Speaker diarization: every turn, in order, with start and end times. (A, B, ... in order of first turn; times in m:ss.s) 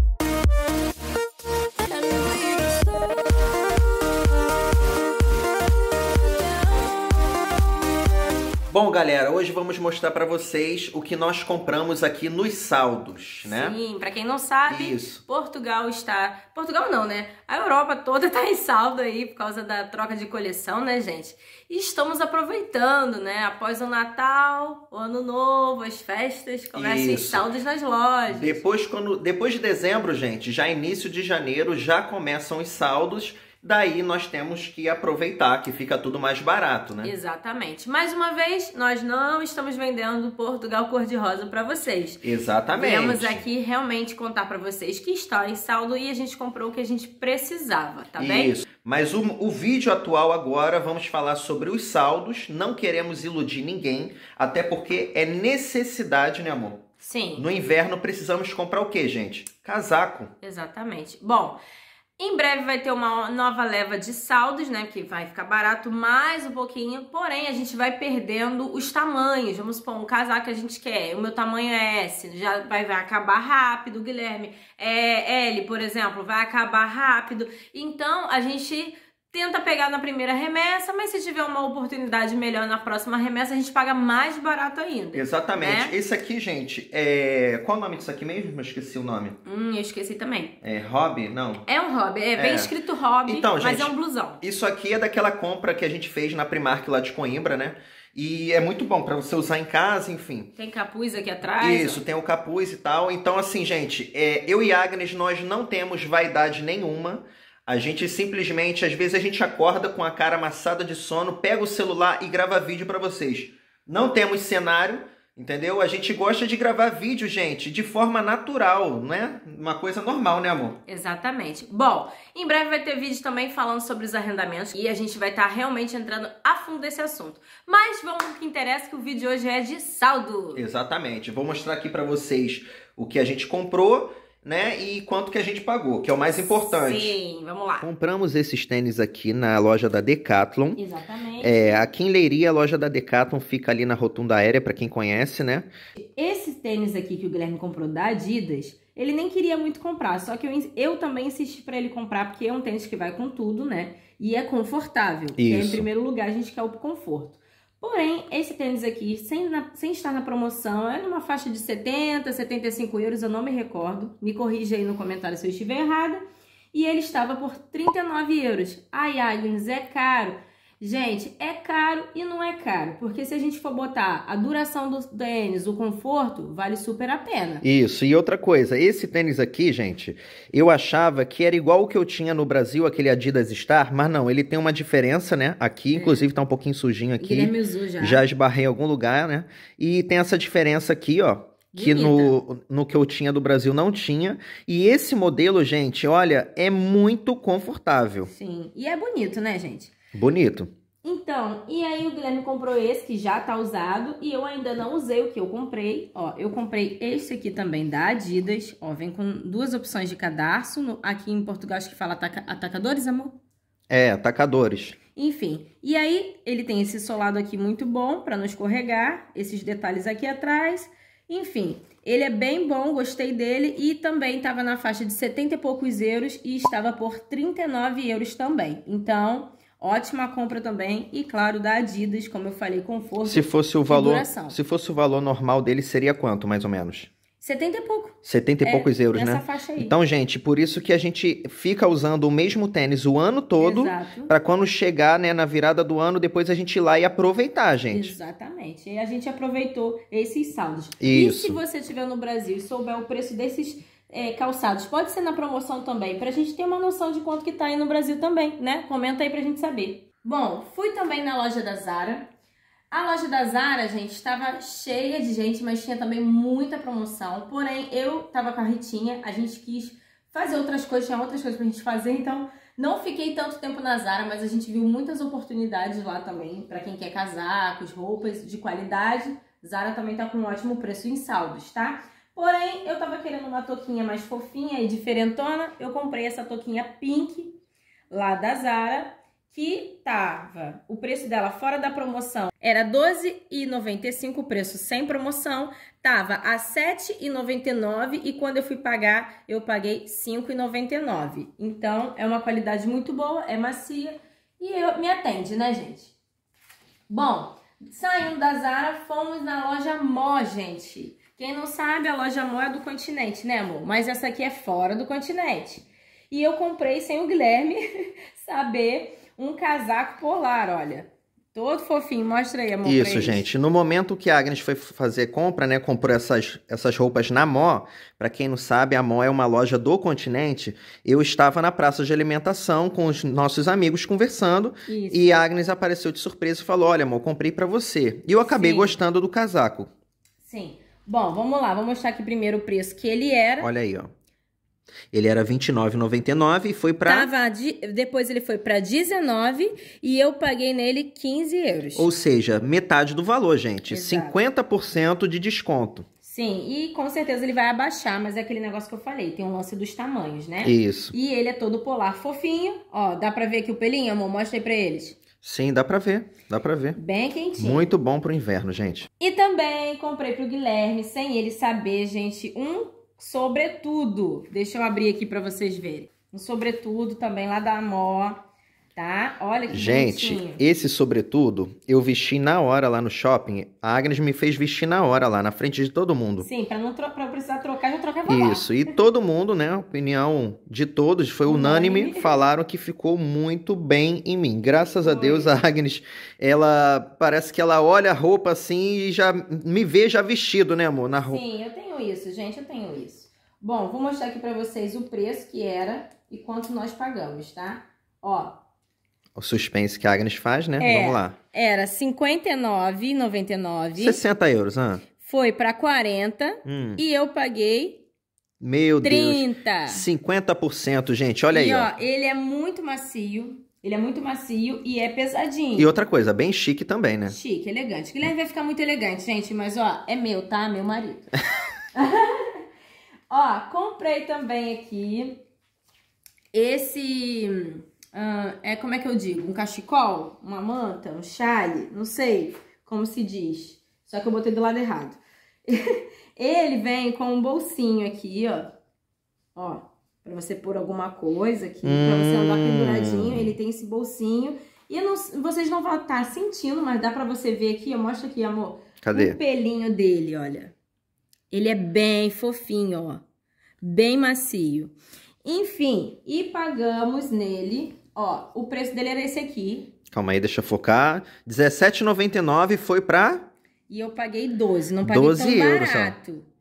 0:01.8-0:03.2 A
0:06.3-0:06.9 A
0:08.7-0:13.8 B
0:13.4-0:28.6 A
0:14.7-0:15.2 B
0:26.7-0:27.4 B
0:28.3-0:37.1 B
0:37.0-0:48.6 A
0:42.2-0:43.4 B
0:48.2-0:56.8 B
0:57.0-0:57.4 A
0:57.4-1:00.3 B
1:00.4-1:01.6 A
1:02.2-1:25.9 A
1:25.1-1:29.4 B
1:29.4-1:30.6 A
1:30.6-1:31.6 B
1:31.6-1:34.4 A
1:32.4-1:32.7 B
1:33.3-1:40.5 B
1:40.6-1:42.0 A
1:41.6-2:00.8 B
2:00.9-2:10.6 A
2:10.5-2:17.2 B
2:16.2-2:17.9 A
2:17.8-2:20.8 B
2:20.8-2:21.8 A
2:21.4-2:25.7 B
2:26.0-2:46.2 A
2:35.4-2:35.8 B
2:46.7-2:57.6 A
2:57.6-3:18.3 B
3:05.9-3:06.3 A
3:07.2-3:08.2 A
3:11.7-3:12.3 A
3:18.3-3:19.9 A
3:20.1-3:20.7 B
3:21.0-3:33.4 A
3:33.9-3:35.0 B
3:35.2-3:54.6 A
3:53.2-3:57.1 B
3:57.4-3:59.9 A
3:58.2-4:08.2 B
4:03.6-4:04.3 A
4:07.9-4:22.3 A
4:11.0-4:11.6 B
4:22.9-5:06.1 A
5:07.1-5:23.5 A
5:22.8-5:39.9 B
5:34.9-5:35.4 A
5:38.4-5:39.0 A
5:40.4-5:43.7 A
5:43.6-5:44.1 B
5:45.1-5:47.3 B
5:47.0-5:52.1 A
5:51.9-5:56.0 B
5:53.9-5:54.4 A
5:56.2-6:05.2 A
6:00.6-6:01.1 B
6:05.4-6:07.0 B
6:06.9-6:07.9 A
6:07.6-6:09.1 B
6:09.2-6:18.4 A
6:19.0-6:20.6 A
6:19.7-6:26.5 B
6:26.4-6:28.9 A
6:28.3-6:41.4 B
6:31.4-6:32.3 A
6:34.7-6:35.5 A
6:41.2-6:48.6 A
6:49.4-6:51.4 B
6:50.8-6:54.2 A
6:53.9-6:55.0 B
6:55.2-6:58.0 A
6:56.6-6:57.0 B
6:58.6-7:01.9 B
6:59.0-7:00.0 A
7:01.5-7:05.9 A
7:05.8-7:07.3 B
7:07.3-7:11.3 A
7:11.9-7:12.6 A
7:13.3-7:15.4 A
7:16.5-7:28.7 A
7:29.5-7:40.7 A
7:31.8-7:33.5 B
7:39.0-7:39.4 B
7:41.5-7:43.2 A
7:43.8-7:49.9 A
7:50.1-7:53.4 B
7:53.9-7:56.4 A
7:55.0-7:56.1 B